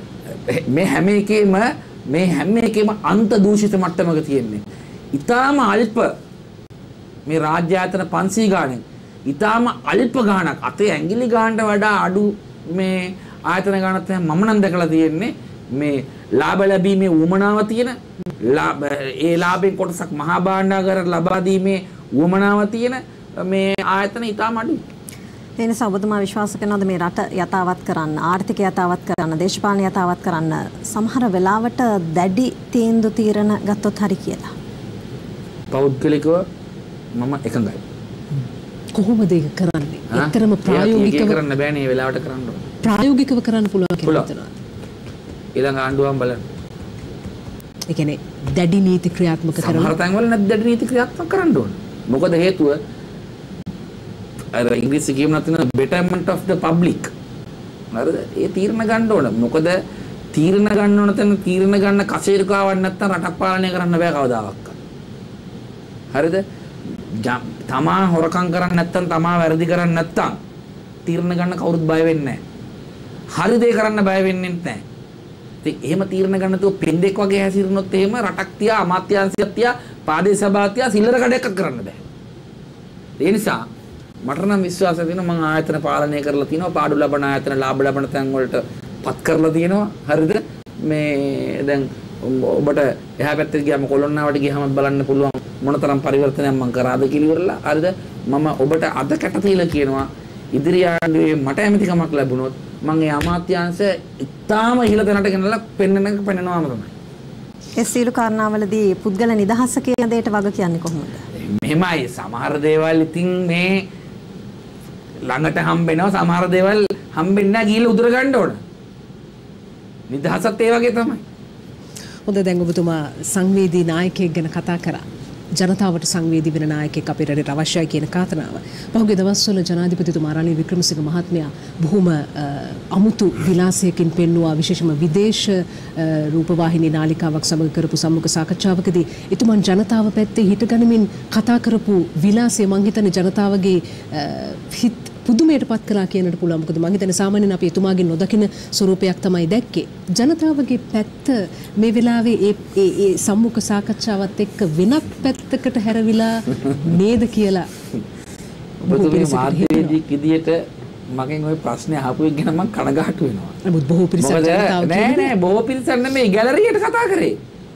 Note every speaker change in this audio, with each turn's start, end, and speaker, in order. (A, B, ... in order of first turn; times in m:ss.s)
0:00.3-0:06.1 A
0:07.2-0:24.8 A
0:25.6-0:34.5 B
0:35.7-0:36.4 A
0:37.1-0:37.8 A
0:38.9-0:41.4 C
0:40.1-0:42.7 A
0:42.8-0:44.5 C
0:44.0-0:44.3 A
0:45.6-0:46.4 A
0:47.9-0:49.9 C
0:49.6-0:52.8 A
0:54.5-0:57.1 A
0:57.9-0:59.8 A
1:00.3-1:04.8 A
1:06.1-1:06.4 A
1:07.1-1:10.4 A
1:11.0-1:12.4 A
1:13.3-1:14.8 A
1:15.6-1:22.0 A
1:23.2-1:23.6 A
1:24.2-1:46.9 A
1:47.8-1:51.2 B
1:51.3-1:53.8 A
1:55.2-1:58.6 A
2:00.1-2:01.2 A
2:02.3-2:05.0 C
2:05.6-2:37.7 C
2:38.8-2:40.0 C
2:38.9-2:43.6 A
2:43.6-2:45.3 C
2:44.2-2:47.4 A